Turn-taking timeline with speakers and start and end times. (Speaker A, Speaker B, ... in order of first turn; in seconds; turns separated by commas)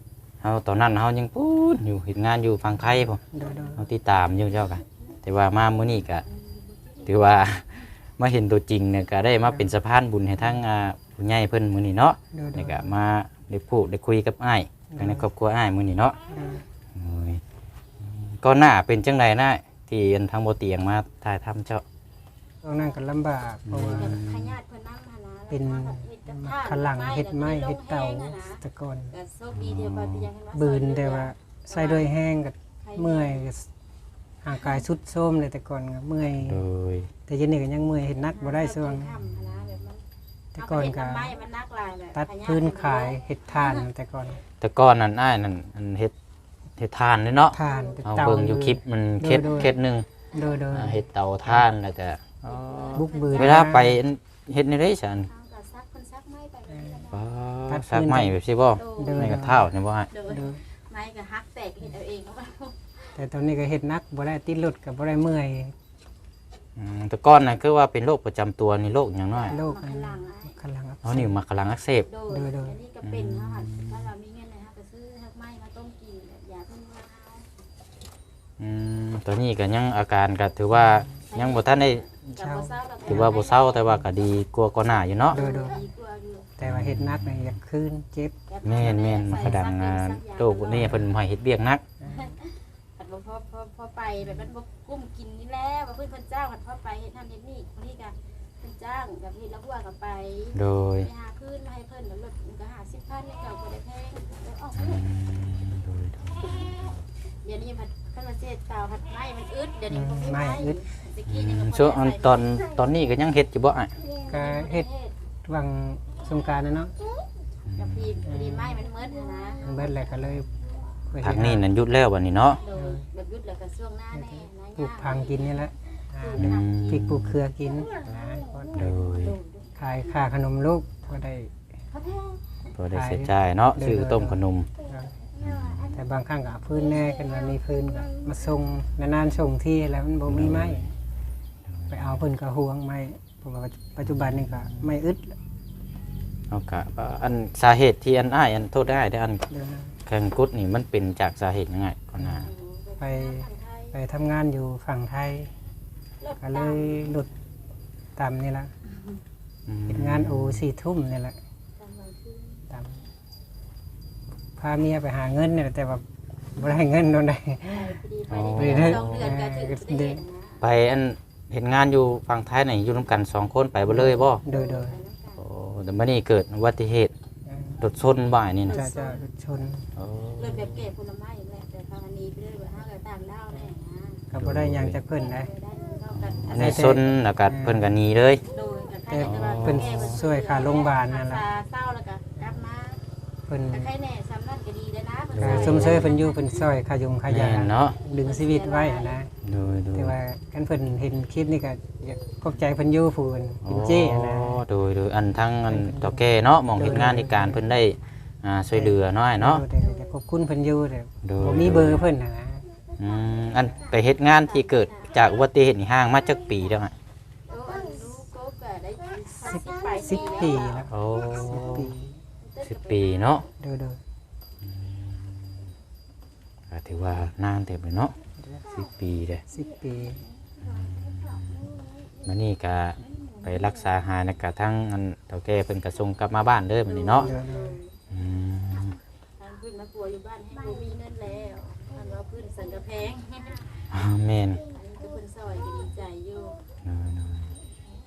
Speaker A: 0.4-3.2, Speaker B: 3.3-3.8, Speaker A: 3.8-6.2, Speaker C: 6.3-7.4, Speaker A: 7.0-16.1, Speaker B: 12.3-12.9, Speaker B: 14.9-15.2, Speaker B: 16.3-16.6, Speaker A: 16.9-17.4, Speaker A: 18.0-21.8, Speaker B: 22.6-24.2, Speaker A: 23.6-24.6, Speaker C: 23.9-28.6, Speaker B: 25.5-29.1, Speaker C: 29.1-32.1, Speaker A: 29.5-30.3, Speaker B: 30.5-33.7, Speaker C: 32.8-33.5, Speaker B: 34.4-36.6, Speaker A: 36.4-37.1, Speaker B: 37.3-39.2, Speaker C: 38.3-40.0, Speaker B: 40.5-41.4, Speaker C: 40.5-43.8, Speaker B: 42.1-44.4, Speaker A: 44.6-46.1, Speaker A: 46.8-50.1, Speaker B: 47.5-49.7, Speaker C: 47.6-48.0, Speaker C: 49.5-49.7, Speaker B: 50.3-51.0, Speaker A: 50.7-55.3, Speaker C: 52.5-53.9, Speaker B: 52.9-54.0, Speaker C: 55.3-57.2, Speaker A: 57.1-60.1, Speaker B: 57.7-58.4, Speaker C: 58.8-59.3, Speaker B: 59.0-59.7, Speaker C: 60.1-63.1, Speaker B: 60.3-60.6, Speaker B: 63.1-65.7, Speaker A: 66.8-69.5, Speaker C: 69.3-70.5, Speaker B: 69.5-71.3, Speaker A: 71.0-72.1, Speaker C: 72.1-77.5, Speaker B: 72.3-72.8, Speaker A: 73.0-74.1, Speaker A: 78.6-82.0, Speaker B: 80.7-81.1, Speaker C: 81.3-83.8, Speaker B: 82.3-83.4, Speaker A: 83.1-85.4, Speaker C: 85.3-86.5, Speaker B: 85.3-85.8, Speaker B: 86.6-89.6, Speaker A: 86.6-87.6, Speaker C: 88.5-91.0, Speaker A: 88.6-91.8, Speaker B: 92.0-92.3, Speaker C: 92.1-105.0, Speaker A: 100.5-101.1, Speaker A: 104.7-107.0, Speaker C: 107.4-112.6, Speaker B: 109.9-110.8, Speaker A: 111.2-113.9, Speaker C: 114.2-115.1, Speaker B: 114.3-114.9, Speaker B: 115.4-116.9, Speaker A: 117.7-118.2, Speaker C: 117.8-119.8, Speaker B: 118.2-118.9, Speaker B: 119.6-120.5, Speaker B: 121.1-121.7, Speaker A: 121.2-122.6, Speaker C: 122.6-127.0, Speaker B: 122.7-123.0, Speaker B: 124.1-129.2, Speaker A: 126.4-127.4, Speaker A: 128.7-129.3, Speaker C: 129.1-129.7, Speaker B: 129.8-131.5, Speaker C: 131.9-132.4, Speaker A: 132.7-134.7, Speaker B: 132.9-135.1, Speaker A: 135.4-135.9, Speaker C: 135.4-135.7, Speaker B: 135.9-140.9, Speaker A: 140.2-140.9, Speaker A: 141.7-142.2, Speaker B: 141.9-145.3, Speaker A: 144.1-144.8, Speaker A: 146.5-149.4, Speaker B: 149.5-149.9, Speaker A: 150.1-152.5, Speaker C: 152.4-154.0, Speaker B: 153.0-155.5, Speaker C: 156.2-157.1, Speaker B: 156.4-157.3, Speaker B: 158.2-158.7, Speaker A: 159.7-160.6, Speaker B: 159.9-161.4, Speaker C: 161.8-162.6, Speaker B: 162.7-163.0, Speaker B: 164.6-166.0, Speaker B: 166.6-168.0, Speaker C: 167.7-170.6, Speaker A: 168.3-169.3, Speaker B: 168.5-170.2, Speaker A: 170.6-174.4, Speaker B: 173.9-175.0, Speaker C: 174.4-175.4, Speaker A: 175.4-177.1, Speaker B: 177.4-177.8, Speaker A: 177.8-178.8, Speaker C: 178.6-179.2, Speaker B: 178.7-179.9, Speaker A: 180.0-180.8, Speaker C: 180.4-184.2, Speaker B: 184.3-185.5, Speaker A: 184.3-185.0, Speaker C: 185.1-187.0, Speaker A: 186.1-188.4, Speaker B: 186.5-187.9, Speaker C: 188.5-193.0, Speaker B: 189.1-191.4, Speaker A: 189.2-190.2, Speaker B: 193.5-193.9, Speaker C: 193.7-196.5, Speaker A: 195.3-196.1, Speaker B: 195.4-199.3, Speaker A: 197.3-197.9, Speaker C: 198.2-199.2, Speaker A: 199.4-200.2, Speaker B: 199.9-204.6, Speaker A: 203.6-209.6, Speaker B: 205.7-207.7, Speaker B: 208.7-212.6, Speaker A: 211.2-212.1, Speaker A: 213.0-216.9, Speaker C: 213.4-215.1, Speaker C: 217.5-220.9, Speaker B: 219.4-222.2, Speaker A: 220.9-221.9, Speaker C: 222.5-223.5, Speaker A: 222.6-223.4, Speaker B: 223.6-224.0, Speaker A: 224.6-225.5, Speaker A: 226.7-228.1, Speaker A: 228.7-229.4, Speaker B: 229.5-230.2, Speaker A: 230.6-231.7, Speaker A: 232.2-237.3, Speaker C: 236.9-237.9, Speaker B: 237.2-237.8, Speaker A: 238.1-239.0, Speaker C: 239.4-243.8, Speaker A: 243.9-244.6, Speaker C: 244.6-246.6, Speaker A: 246.8-247.5